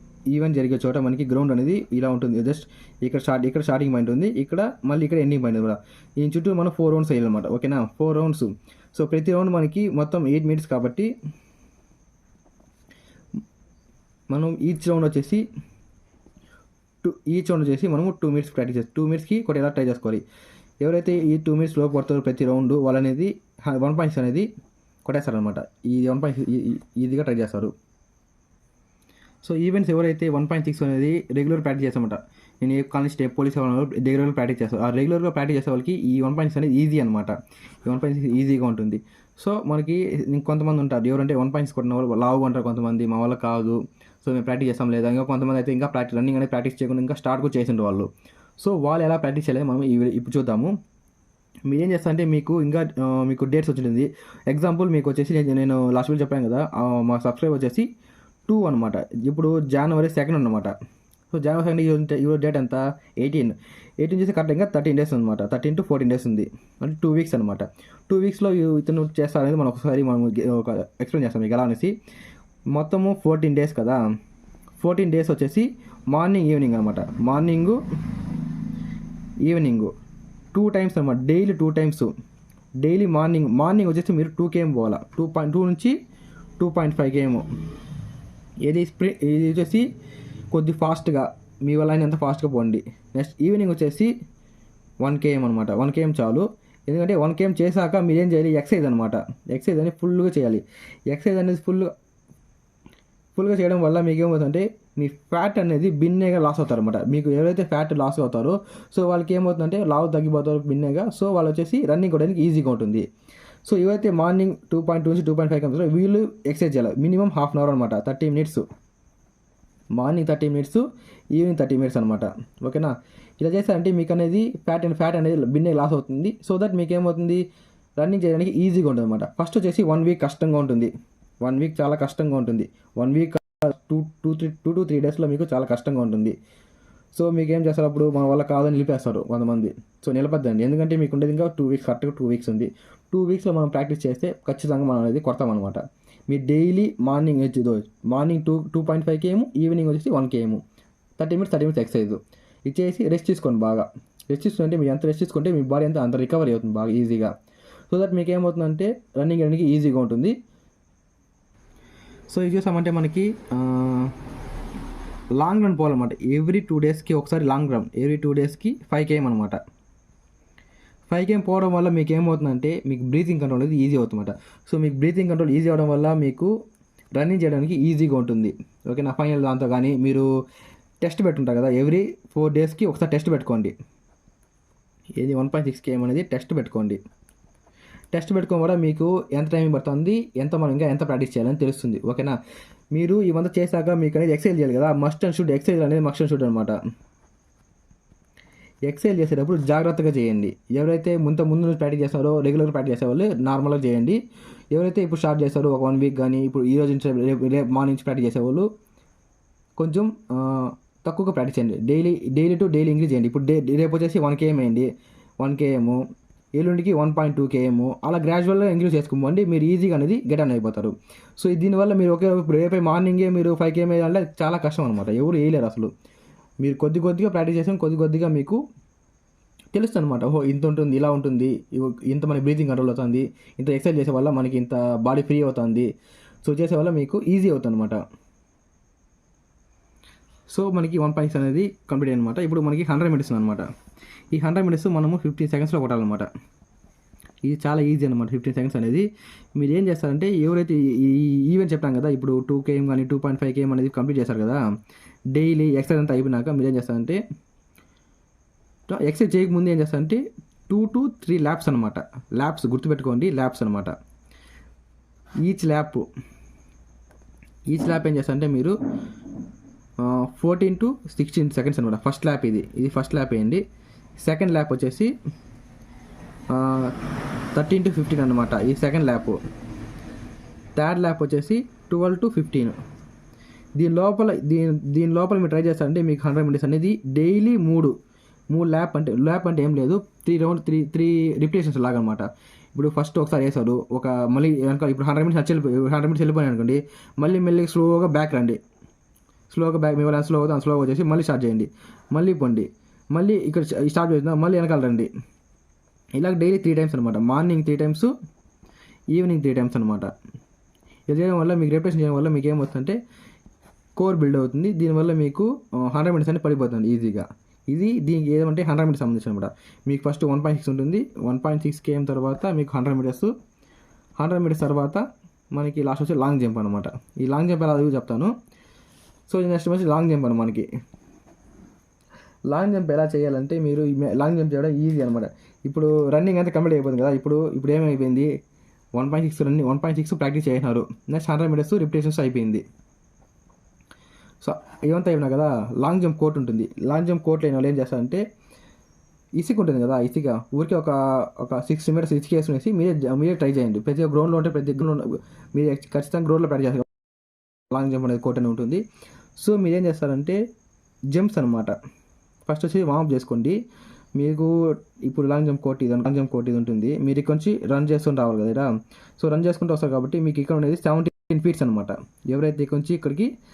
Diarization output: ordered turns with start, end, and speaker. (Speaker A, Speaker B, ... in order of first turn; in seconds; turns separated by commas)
Speaker A: 0.3-11.1, Speaker A: 14.3-15.4, Speaker A: 17.0-20.2, Speaker A: 20.8-24.5, Speaker A: 25.1-27.7, Speaker A: 29.4-48.1, Speaker A: 48.6-50.7, Speaker A: 51.7-57.9, Speaker A: 58.5-60.7, Speaker A: 61.3-71.9, Speaker A: 72.7-74.0, Speaker A: 74.8-77.8, Speaker A: 79.5-79.9, Speaker A: 80.5-82.1, Speaker A: 82.8-85.9, Speaker A: 86.6-87.5, Speaker A: 88.6-89.9, Speaker A: 90.5-94.1, Speaker A: 95.0-101.9, Speaker A: 103.4-113.0, Speaker A: 113.7-118.7, Speaker A: 120.0-127.4, Speaker A: 128.0-136.3, Speaker A: 137.1-150.6, Speaker A: 151.2-157.3, Speaker A: 157.9-160.3, Speaker A: 162.3-164.1, Speaker A: 165.4-169.6, Speaker A: 171.1-176.5, Speaker A: 177.2-180.3, Speaker A: 181.0-183.7, Speaker A: 185.2-187.0, Speaker A: 188.1-192.3, Speaker A: 192.9-196.8, Speaker A: 198.9-204.2, Speaker A: 204.7-208.7, Speaker A: 209.8-214.9, Speaker A: 215.4-216.0, Speaker A: 216.6-225.9, Speaker A: 226.6-228.6, Speaker A: 229.7-235.9, Speaker A: 236.4-238.0, Speaker A: 240.5-243.7, Speaker A: 244.3-246.3, Speaker A: 247.4-254.6, Speaker A: 255.3-257.2, Speaker A: 258.9-263.9, Speaker A: 265.4-266.1, Speaker A: 267.7-268.8, Speaker A: 270.0-273.6, Speaker A: 274.2-275.1, Speaker A: 276.5-276.9, Speaker A: 277.6-279.4, Speaker A: 280.8-282.8, Speaker A: 283.8-287.9, Speaker A: 288.5-298.6, Speaker A: 299.5-305.1, Speaker A: 306.2-308.1, Speaker A: 309.1-310.1, Speaker A: 311.1-313.0, Speaker A: 314.0-323.3, Speaker A: 324.2-328.3, Speaker A: 329.3-330.7, Speaker A: 332.5-338.3, Speaker A: 339.0-342.6, Speaker A: 344.4-348.2, Speaker A: 349.4-356.9, Speaker A: 357.7-358.8, Speaker A: 359.4-360.4, Speaker A: 361.1-361.8, Speaker A: 362.5-363.6, Speaker A: 364.2-373.3